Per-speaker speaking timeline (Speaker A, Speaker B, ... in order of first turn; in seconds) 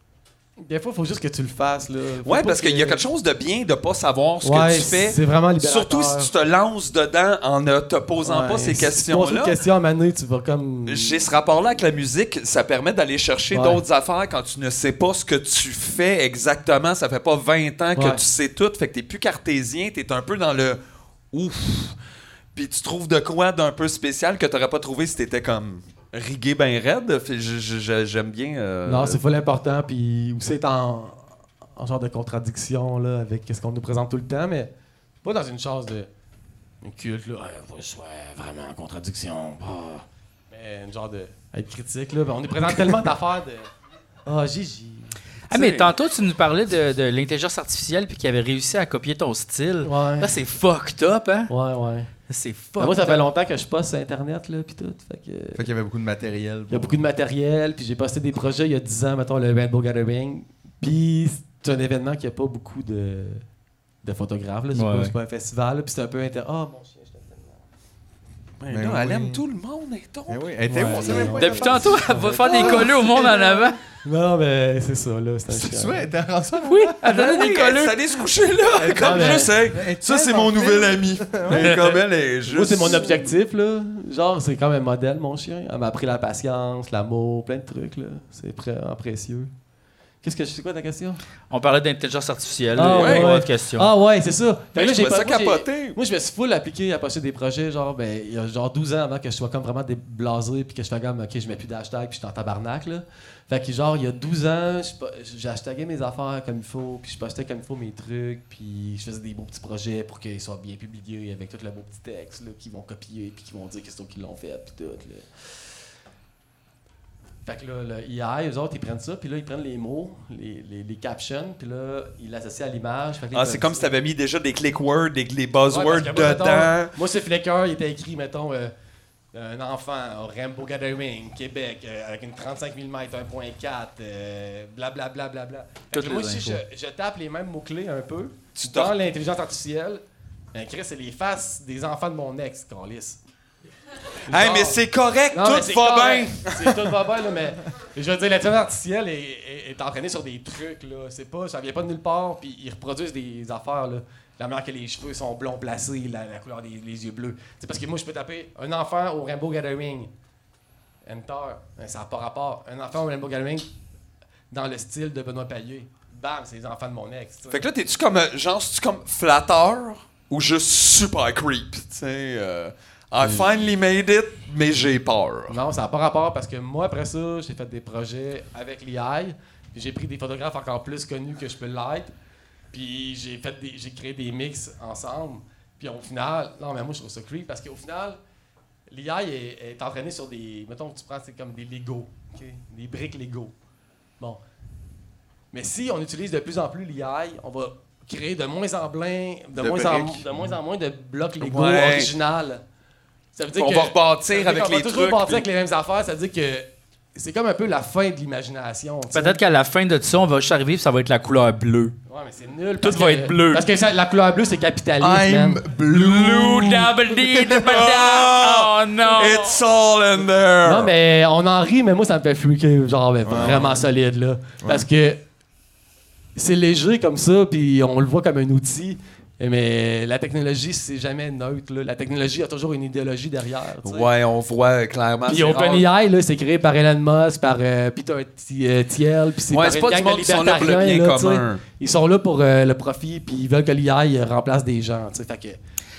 Speaker A: 0.6-3.0, 4.4-6.3, 8.2-11.2, 13.5-13.8, 18.0-18.2, 28.9-31.2, 31.8-34.7, 35.2-36.1, 36.8-43.7, 44.3-45.1, 49.8-50.3, 51.5-52.1, 52.8-55.6, 56.7-63.5, 64.0-67.6, 70.7-73.4, 74.0-76.1, 78.8-79.6, 82.5-89.5, 90.2-91.2, 92.8-115.3, 117.5-123.9, 125.7-128.7, 129.3-140.0, 140.5-143.2, 144.3-144.8, 145.3-160.1, 161.1-163.7, 164.5-167.6, 175.5-182.1, 182.7-188.2, 188.9-193.5, 195.5-202.6, 203.3-209.4, 212.1-215.6, 220.6-225.2, 226.4-234.1, 235.3-245.6
Speaker B: 2.2-9.6, 10.9-20.8, 21.3-22.0, 22.5-29.2, 45.5-45.9, 68.6-71.4, 77.0-83.2, 92.8-93.3, 94.8-96.0, 123.3-126.9, 138.6-138.9, 144.3-146.8, 167.5-175.6, 201.4-202.1, 203.6-205.4, 217.5-220.9, 233.8-235.9, 239.5-241.6
Speaker C: 45.5-51.5, 52.3-53.2, 64.7-65.1, 71.3-73.8, 76.6-78.0, 81.5-81.9, 91.5-93.9, 135.9-136.6, 209.1-211.9, 212.8-213.7, 215.9-219.6
Speaker D: 55.5-57.0, 68.7-69.4, 70.3-72.9, 75.5-77.0, 79.6-81.8, 199.6-200.3, 215.0-217.8, 223.2-223.8